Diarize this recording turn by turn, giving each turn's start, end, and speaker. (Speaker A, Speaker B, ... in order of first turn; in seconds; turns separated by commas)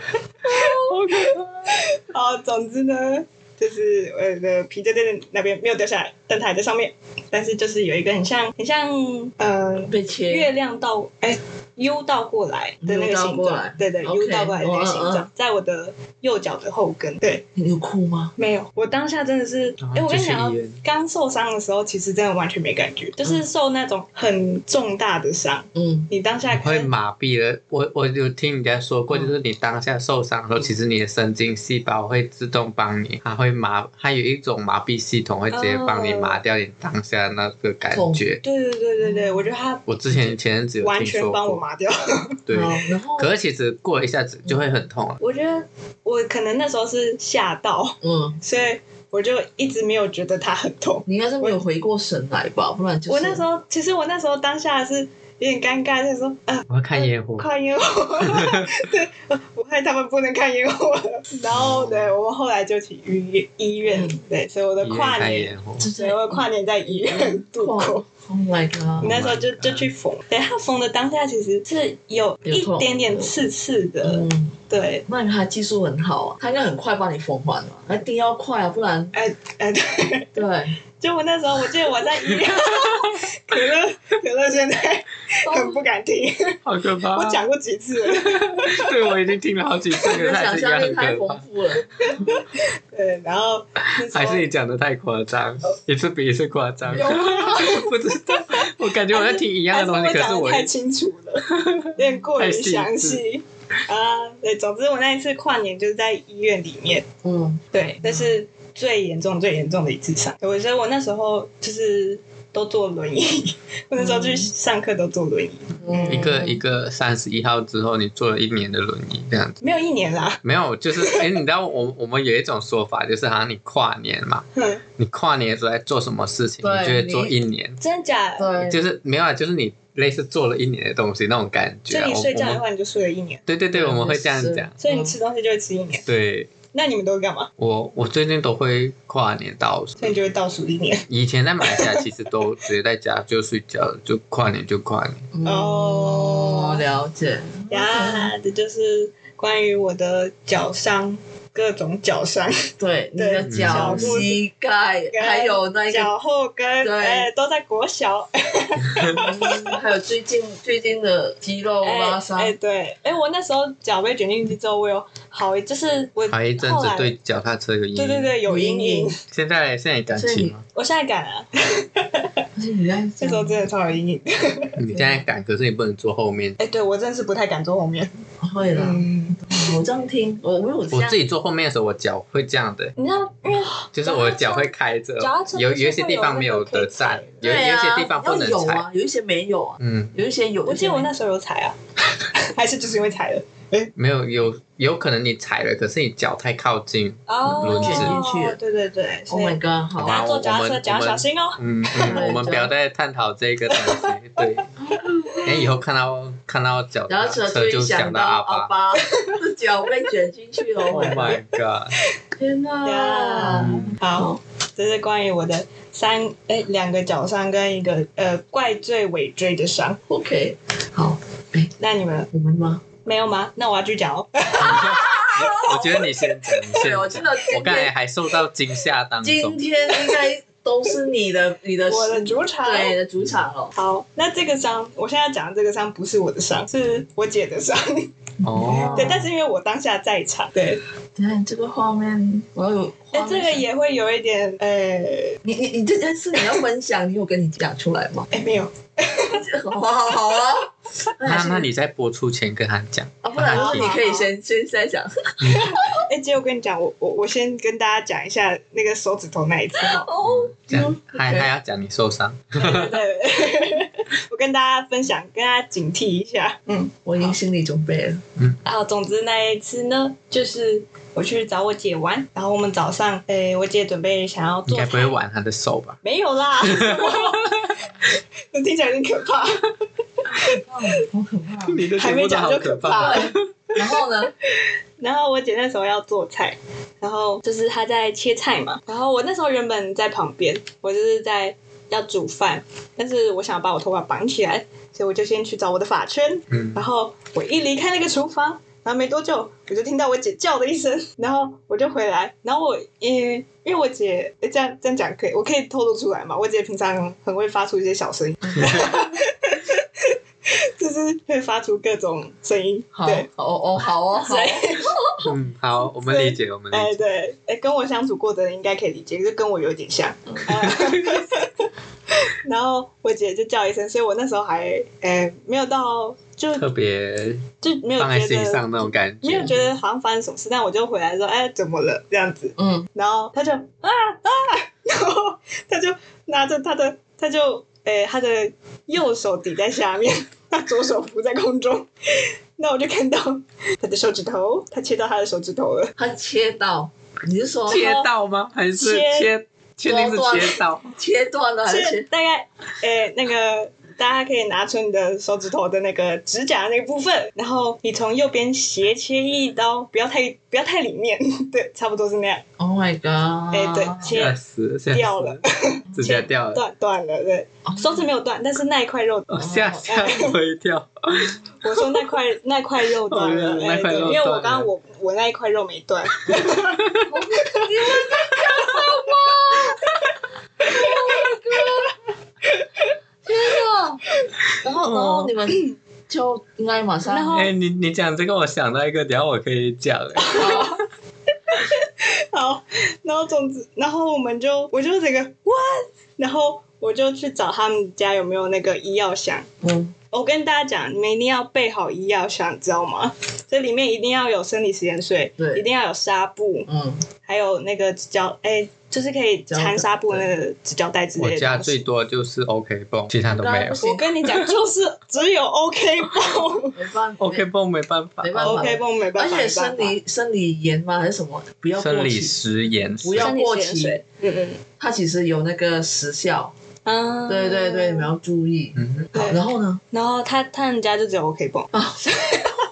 Speaker A: 0.5-0.8, Speaker B: 0.5-17.4, Speaker C: 0.9-1.8, Speaker A: 9.9-10.5, Speaker A: 12.8-15.3, Speaker A: 17.5-18.3, Speaker B: 18.4-26.9, Speaker C: 19.8-20.8, Speaker A: 25.7-26.1, Speaker C: 26.5-38.4, Speaker B: 35.5-36.4, Speaker A: 37.9-38.2, Speaker B: 38.4-39.8, Speaker A: 39.0-39.5, Speaker C: 39.9-41.6, Speaker B: 40.8-42.4, Speaker C: 42.5-45.2, Speaker A: 42.5-43.3, Speaker B: 45.2-51.6, Speaker A: 48.0-48.4, Speaker A: 51.1-53.4, Speaker B: 53.1-68.0, Speaker C: 56.7-57.5, Speaker C: 58.2-58.7, Speaker C: 61.5-62.1, Speaker A: 63.9-64.2, Speaker C: 64.8-65.9, Speaker A: 65.8-69.2, Speaker C: 69.0-69.9, Speaker B: 69.0-75.0, Speaker A: 72.5-73.3, Speaker A: 74.0-79.1, Speaker B: 79.1-80.3, Speaker A: 80.3-80.8, Speaker B: 81.0-86.6, Speaker C: 82.4-83.2, Speaker A: 85.4-85.8, Speaker C: 86.6-87.4, Speaker B: 87.1-89.1, Speaker C: 88.0-91.4, Speaker A: 90.1-92.4, Speaker B: 92.0-94.4, Speaker C: 94.0-100.7, Speaker B: 97.0-107.1, Speaker C: 101.5-103.2, Speaker A: 107.2-107.6, Speaker B: 107.7-116.3, Speaker A: 114.0-114.5, Speaker A: 115.8-116.6, Speaker C: 116.1-119.5, Speaker B: 119.6-120.4, Speaker C: 120.4-124.5, Speaker B: 121.0-121.2, Speaker B: 124.5-124.8, Speaker C: 125.0-127.8, Speaker A: 126.6-127.3, Speaker B: 127.8-128.5, Speaker A: 128.4-128.8, Speaker C: 128.6-132.6, Speaker B: 131.9-133.4, Speaker C: 133.5-134.8, Speaker A: 133.7-135.2, Speaker B: 134.8-136.1, Speaker C: 136.1-136.5, Speaker B: 136.7-137.5, Speaker C: 137.6-140.1, Speaker B: 140.0-141.1, Speaker C: 141.1-145.2, Speaker B: 141.6-142.0, Speaker A: 145.3-148.3, Speaker B: 145.4-146.8, Speaker B: 147.7-154.4, Speaker A: 152.8-156.1, Speaker C: 153.4-154.2, Speaker B: 155.1-159.8, Speaker A: 156.8-157.3, Speaker C: 158.8-159.3, Speaker A: 159.1-162.5, Speaker B: 161.8-167.1, Speaker C: 166.3-168.3, Speaker B: 167.9-169.2, Speaker A: 168.5-169.1, Speaker C: 169.3-170.6, Speaker A: 170.2-170.5, Speaker B: 170.7-172.3, Speaker A: 172.6-173.7, Speaker B: 173.2-174.8, Speaker C: 174.8-176.6, Speaker A: 174.9-175.2, Speaker B: 176.6-178.1, Speaker A: 178.4-181.2, Speaker B: 178.7-179.8, Speaker C: 180.9-182.9, Speaker B: 183.0-187.4, Speaker C: 183.9-188.8, Speaker A: 187.4-191.1, Speaker C: 189.8-190.2, Speaker B: 190.6-191.8, Speaker B: 192.3-193.9, Speaker C: 193.9-198.2, Speaker B: 197.3-202.3, Speaker A: 197.6-198.6, Speaker A: 199.3-200.2, Speaker C: 200.0-204.7, Speaker A: 202.0-202.7, Speaker B: 203.7-204.5, Speaker A: 204.8-205.5, Speaker C: 205.4-208.7, Speaker A: 207.1-211.4, Speaker B: 208.9-209.4, Speaker B: 210.9-211.4, Speaker C: 210.9-211.9, Speaker A: 212.3-214.4, Speaker B: 212.8-220.0, Speaker C: 213.5-213.9, Speaker A: 220.1-221.7, Speaker B: 221.8-222.3, Speaker A: 222.3-222.8, Speaker B: 223.0-224.9, Speaker C: 224.6-229.6, Speaker A: 224.6-225.8, Speaker B: 225.7-226.8, Speaker A: 226.7-227.9, Speaker A: 229.2-233.7, Speaker B: 229.9-230.3, Speaker B: 231.9-232.9, Speaker B: 233.8-240.8, Speaker C: 238.4-239.2, Speaker A: 238.4-239.3, Speaker A: 241.2-243.7, Speaker B: 243.1-245.4, Speaker A: 245.4-248.3, Speaker B: 248.3-249.4, Speaker A: 249.3-251.7, Speaker C: 251.2-253.9, Speaker A: 253.2-256.0, Speaker B: 253.5-254.3, Speaker C: 255.4-255.7, Speaker B: 255.6-260.1, Speaker A: 259.8-261.5, Speaker C: 260.2-262.9, Speaker B: 262.6-267.3, Speaker A: 267.0-268.2, Speaker B: 268.6-275.1, Speaker C: 274.7-276.0, Speaker B: 276.0-279.7, Speaker C: 276.6-277.7, Speaker A: 280.3-281.8, Speaker C: 281.7-283.4, Speaker B: 282.0-283.8, Speaker A: 283.0-284.3, Speaker B: 284.5-313.3, Speaker C: 296.5-296.8, Speaker C: 308.6-308.9, Speaker A: 312.9-315.2, Speaker B: 314.1-315.0, Speaker C: 315.2-317.0, Speaker B: 316.1-321.7, Speaker C: 320.5-321.2, Speaker B: 322.3-326.7, Speaker C: 326.5-329.7, Speaker B: 327.6-345.9, Speaker A: 332.6-332.9, Speaker A: 346.0-347.9, Speaker C: 347.7-350.9, Speaker B: 347.7-348.1, Speaker B: 348.8-349.3, Speaker A: 349.9-352.1, Speaker B: 351.7-362.4, Speaker A: 362.6-364.1, Speaker B: 363.5-364.4, Speaker C: 364.1-365.4, Speaker B: 364.9-370.4, Speaker C: 365.9-366.6, Speaker A: 367.6-368.0, Speaker C: 369.3-372.0, Speaker A: 369.4-369.9, Speaker B: 371.6-376.8, Speaker C: 373.1-374.7, Speaker C: 376.5-377.1, Speaker A: 377.0-379.9, Speaker B: 378.0-378.3, Speaker A: 380.6-381.9, Speaker A: 383.2-384.0, Speaker A: 384.6-387.5, Speaker B: 384.8-385.7, Speaker B: 387.1-387.5, Speaker C: 387.3-390.7, Speaker B: 390.2-390.8, Speaker A: 390.4-390.7, Speaker B: 391.5-399.5, Speaker A: 399.6-399.9, Speaker B: 400.1-406.7, Speaker A: 405.4-405.6, Speaker A: 406.7-407.0, Speaker B: 407.2-411.8, Speaker A: 409.5-410.3, Speaker C: 411.2-414.5, Speaker A: 413.2-414.1, Speaker B: 413.8-416.8, Speaker A: 416.7-417.4, Speaker C: 417.2-418.6, Speaker A: 418.2-422.4, Speaker B: 418.4-419.9, Speaker C: 421.8-423.3, Speaker A: 423.0-424.0, Speaker B: 423.2-424.6, Speaker A: 424.8-426.5, Speaker B: 426.8-428.1, Speaker A: 427.3-429.8, Speaker C: 428.8-429.1, Speaker B: 429.1-432.6, Speaker A: 431.7-432.1